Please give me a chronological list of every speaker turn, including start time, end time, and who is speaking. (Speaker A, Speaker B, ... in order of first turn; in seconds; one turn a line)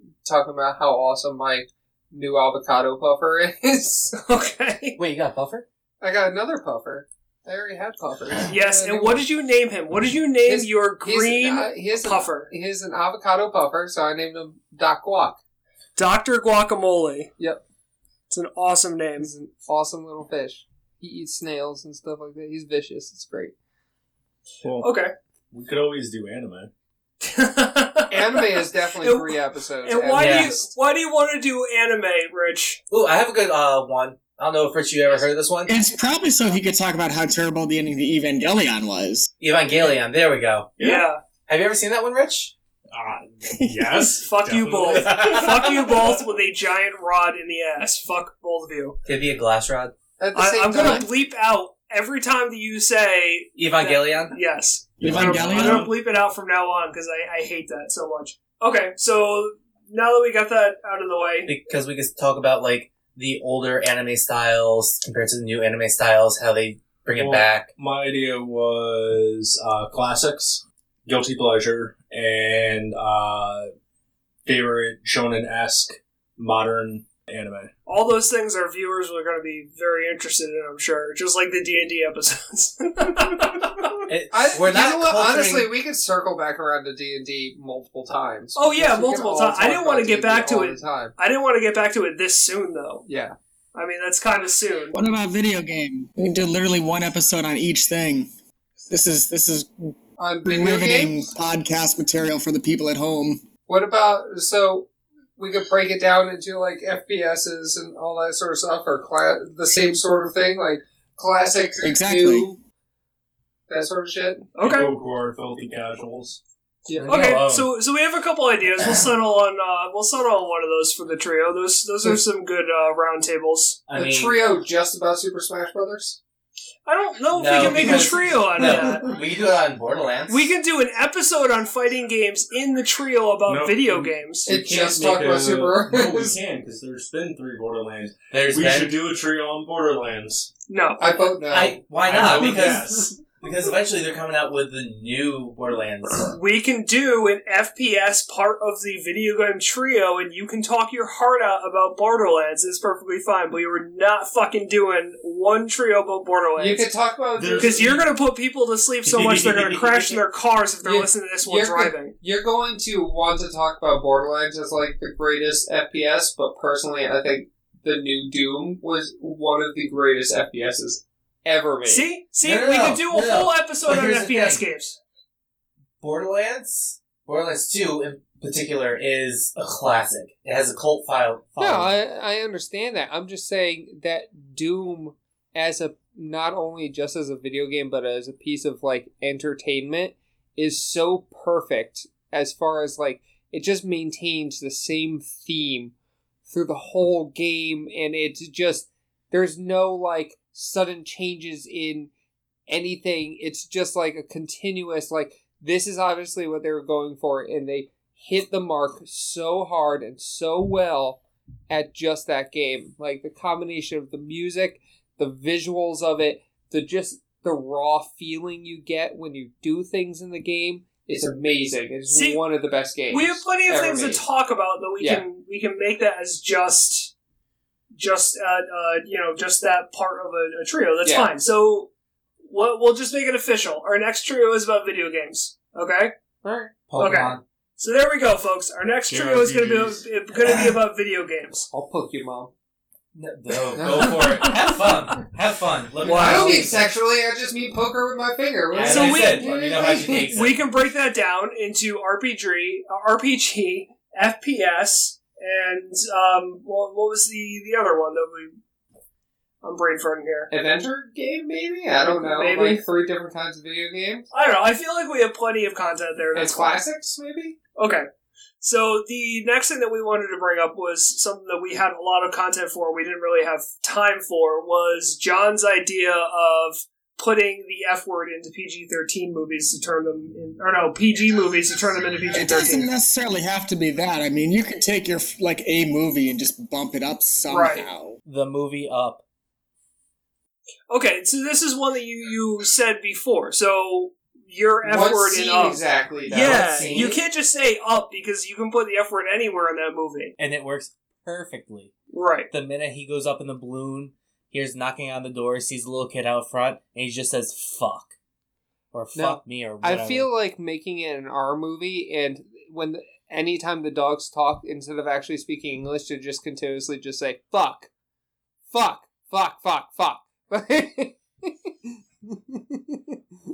Speaker A: 0.2-4.1
Speaker B: 4.1-5.0
Speaker C: 5.0-5.7
Speaker A: 6.0-9.2
Speaker B: 8.5-12.5
Speaker A: 10.5-15.4
Speaker B: 16.0-17.3
Speaker B: 18.3-19.3
Speaker A: 19.2-23.5
Speaker D: 24.6-25.0
Speaker B: 24.8-25.1
Speaker D: 25.5-26.7
Speaker B: 27.2-32.8
Speaker A: 28.1-30.7
Speaker C: 30.2-30.5
Speaker C: 32.9-35.8
Speaker E: 35.7-39.3
Speaker C: 39.4-40.8
Speaker D: 40.8-41.1
Speaker B: 40.8-41.2
Speaker C: 41.5-42.5
Speaker D: 42.9-45.7
Speaker E: 43.5-44.1
Speaker B: 44.1-49.0
Speaker C: 45.0-45.8
Speaker C: 49.0-49.9
Speaker A: 50.2-51.1
Speaker B: 50.4-61.5
Speaker C: 53.6-54.4
Speaker E: 55.0-55.9
Speaker C: 55.2-55.7
Speaker D: 55.2-55.8
Speaker C: 61.5-67.7
Speaker D: 67.2-73.7
Speaker D: 74.5-77.7
Speaker B: 77.9-84.0
Speaker C: 84.1-85.7
Speaker A: 84.3-91.2
Speaker B: 88.6-93.0
Speaker A: 93.1-93.4
Speaker B: 93.7-95.0
Speaker E: 94.9-98.3
Speaker E: 98.9-99.9
Speaker A: 100.2-101.2
Speaker E: 100.5-103.4
Speaker A: 103.7-112.6
Speaker E: 111.8-112.5
Speaker A: 113.7-114.5
Speaker B: 114.5-114.9
Speaker D: 114.6-116.4
Speaker A: 116.9-117.1
Speaker C: 117.0-117.7
Speaker D: 117.1-117.7
Speaker B: 117.1-123.8
Speaker C: 123.9-124.6
Speaker A: 123.9-126.2
Speaker B: 126.9-129.1
Speaker C: 127.3-130.5
Speaker B: 130.3-134.5
Speaker D: 133.5-140.5
Speaker A: 134.5-136.4
Speaker C: 138.3-139.0
Speaker B: 140.7-141.3
Speaker A: 141.0-143.0
Speaker C: 141.5-146.4
Speaker D: 142.0-143.2
Speaker B: 146.3-156.9
Speaker A: 156.6-158.0
Speaker D: 157.4-158.1
Speaker B: 157.6-162.1
Speaker C: 159.0-160.2
Speaker A: 160.8-172.1
Speaker B: 171.8-175.0
Speaker C: 172.4-174.6
Speaker C: 176.0-182.0
Speaker A: 181.6-195.9
Speaker A: 196.5-202.1
Speaker A: 202.7-224.2
Speaker B: 222.1-222.4
Speaker B: 223.1-227.1
Speaker A: 225.0-225.2
Speaker B: 228.0-231.9
Speaker A: 231.0-231.3
Speaker B: 232.5-236.1
Speaker A: 236.4-236.7
Speaker C: 236.9-237.4
Speaker B: 237.0-241.7
Speaker D: 239.1-240.1
Speaker A: 241.7-242.5
Speaker C: 243.2-246.8
Speaker A: 243.8-244.8
Speaker B: 246.0-246.7
Speaker A: 246.0-250.3
Speaker C: 248.7-250.7
Speaker B: 248.8-258.5
Speaker B: 259.6-260.5
Speaker A: 260.5-264.3
Speaker B: 262.0-262.8
Speaker B: 264.3-266.8
Speaker A: 266.3-267.6
Speaker B: 267.8-268.1
Speaker B: 268.6-282.9
Speaker E: 282.3-288.2
Speaker B: 287.5-287.9
Speaker C: 288.3-289.2
Speaker B: 290.9-300.4
Speaker A: 294.8-297.2
Speaker C: 296.4-297.2
Speaker C: 300.4-301.9
Speaker B: 302.1-302.5
Speaker C: 302.5-308.1
Speaker C: 308.9-310.3
Speaker A: 309.1-317.9
Speaker A: 318.7-321.7
Speaker A: 322.3-323.2